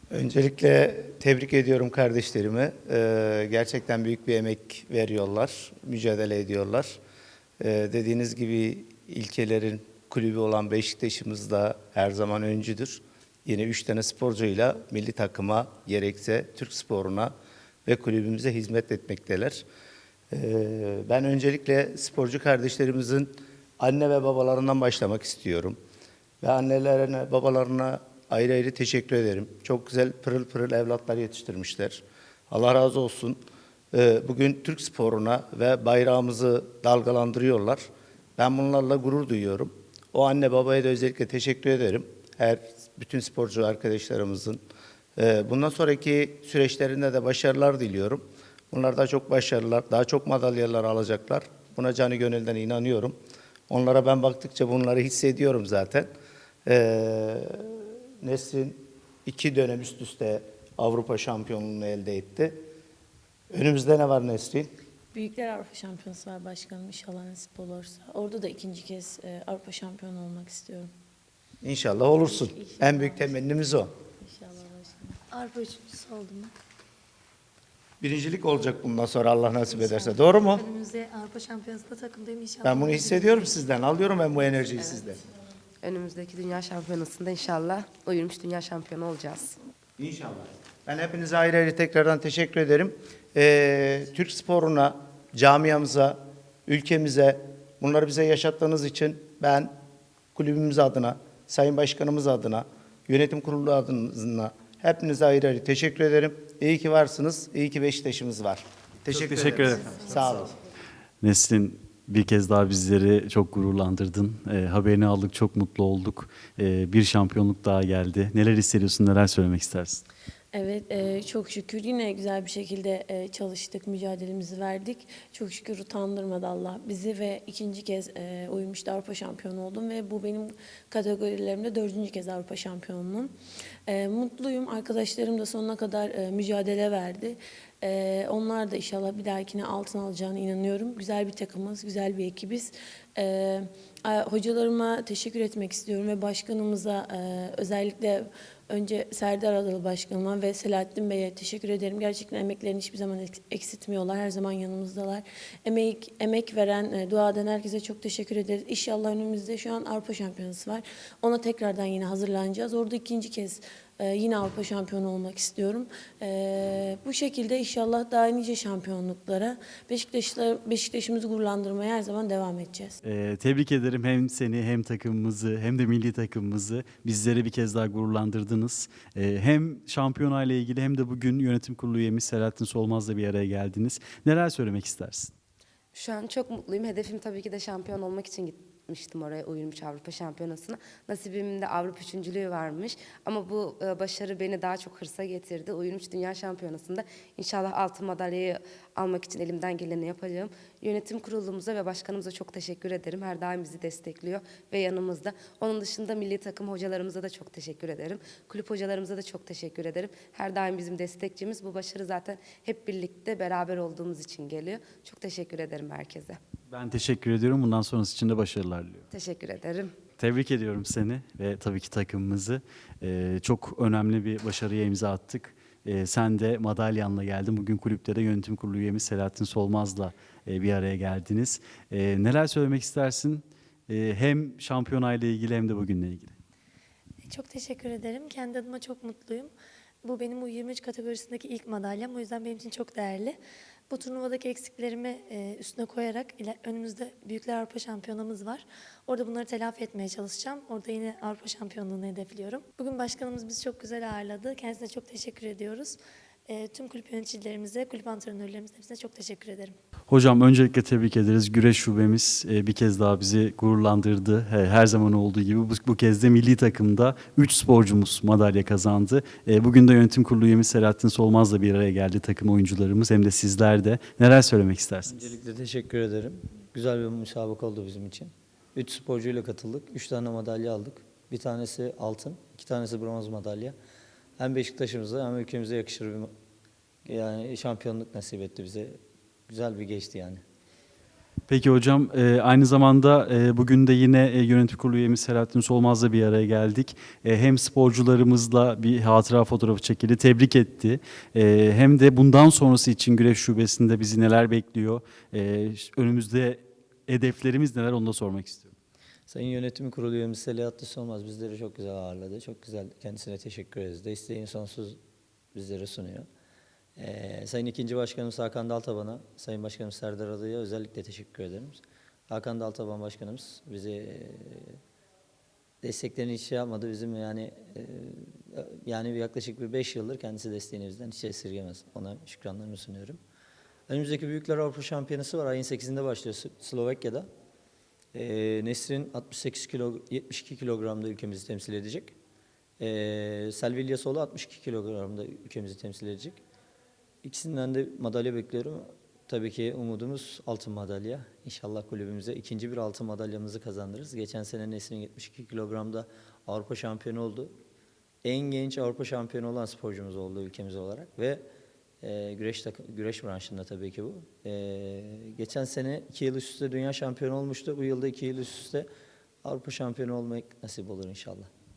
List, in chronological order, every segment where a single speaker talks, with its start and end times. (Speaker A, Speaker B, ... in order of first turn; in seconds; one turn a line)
Speaker A: 0.1-7.0
Speaker A: 7.6-17.3
Speaker A: 17.9-19.6
Speaker A: 20.3-25.8
Speaker A: 26.4-33.4
Speaker A: 33.9-37.9
Speaker A: 38.4-44.6
Speaker A: 45.2-53.2
Speaker A: 53.7-56.1
Speaker A: 56.7-62.6
Speaker A: 63.5-64.7
Speaker B: 65.1-70.9
Speaker A: 71.6-73.9
Speaker B: 72.3-73.4
Speaker B: 74.2-75.2
Speaker C: 75.3-76.5
Speaker A: 78.0-80.6
Speaker C: 79.7-83.5
Speaker A: 82.6-85.2
Speaker D: 84.8-85.0
Speaker D: 85.8-89.6
Speaker A: 90.0-99.7
Speaker A: 100.3-110.5
Speaker E: 109.1-110.0
Speaker F: 109.3-110.5
Speaker E: 111.2-120.0
Speaker B: 120.5-133.3
Speaker B: 133.9-173.0
Speaker E: 173.0-185.3
Speaker D: 185.9-216.4
Speaker E: 216.7-219.1
Speaker D: 219.1-219.9
Speaker E: 220.2-236.3
Speaker C: 237.2-239.5
Speaker C: 240.0-243.4
Speaker C: 243.9-259.8
Speaker E: 260.1-275.3
Speaker F: 275.1-283.8
Speaker F: 284.4-286.3
Speaker F: 287.1-290.4
Speaker E: 291.5-308.8
Speaker F: 309.3-315.0
Speaker F: 315.5-316.3
Speaker F: 317.0-324.8
Speaker F: 325.8-333.2
Speaker F: 333.9-337.3
Speaker F: 338.1-342.1
Speaker F: 342.8-346.4
Speaker F: 347.2-357.6
Speaker F: 358.2-361.4
Speaker F: 362.0-368.9
Speaker F: 369.4-371.5